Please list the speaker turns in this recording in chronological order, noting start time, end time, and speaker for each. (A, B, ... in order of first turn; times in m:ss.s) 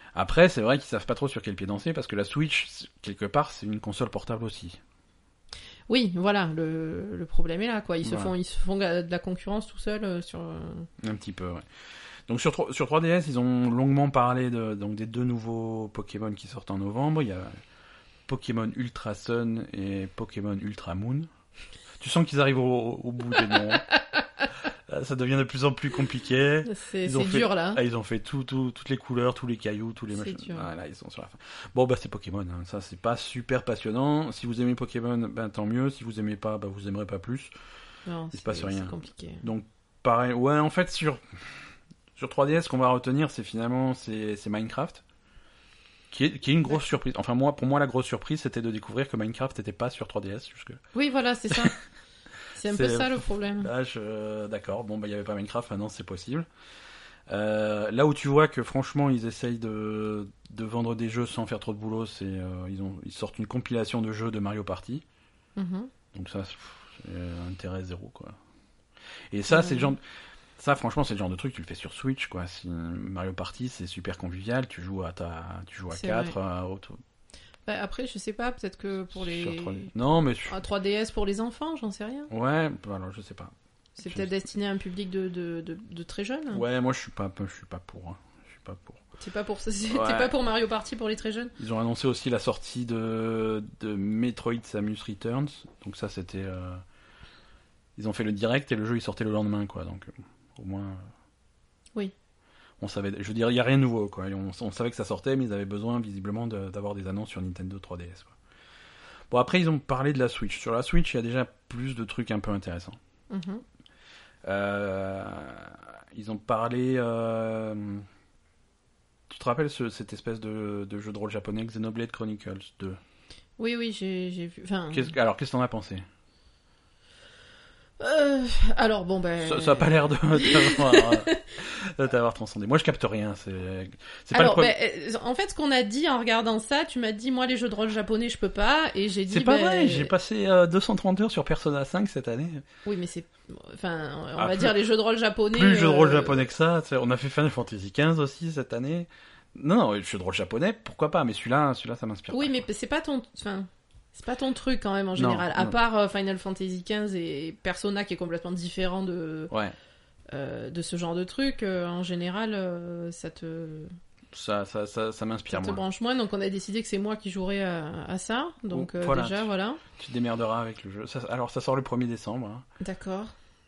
0:00.1-0:04.8 A
0:05.9-0:10.9 B
0:08.0-0:08.3 A
0:11.0-0:11.6 A
0:12.3-0:17.5 A
0:18.3-0:21.3 A
0:22.0-0:23.8 A
0:24.9-0:37.5 A
0:26.6-0:27.8 B
0:30.1-0:30.7 B
0:38.0-0:39.4 B
0:38.3-0:41.6 A
0:42.2-0:45.0 A
0:46.1-0:50.8 A
0:50.9-0:51.7 B
0:52.5-0:53.7 B
0:52.6-0:56.5 A
0:57.3-1:05.0 A
1:05.6-1:05.9 B
1:06.1-1:08.3 A
1:09.3-1:10.0 A
1:09.5-1:09.9 B
1:10.6-1:17.0 A
1:15.9-1:16.3 B
1:17.6-1:19.9 B
1:19.1-1:20.6 A
1:20.4-1:22.3 B
1:22.3-1:23.5 A
1:24.0-1:26.6 B
1:24.0-1:24.3 A
1:26.5-1:29.0 A
1:29.2-1:31.5 B
1:29.9-1:30.4 A
1:31.6-1:36.8 A
1:38.0-1:41.0 A
1:42.8-1:48.3 A
1:49.3-1:53.0 A
1:53.3-1:53.6 B
1:54.4-1:58.0 A
1:59.3-2:03.0 A
2:03.6-2:05.1 B
2:04.9-2:06.0 A
2:08.0-2:11.4 B
2:09.4-2:14.7 A
2:14.3-2:20.1 B
2:19.3-2:22.6 A
2:22.8-2:26.4 B
2:24.4-2:24.7 A
2:25.5-2:32.6 A
2:32.3-2:39.5 B
2:35.1-2:35.8 A
2:40.3-2:43.9 B
2:44.3-2:45.8 A
2:45.5-2:49.8 B
2:48.7-2:52.6 A
2:52.8-2:53.3 B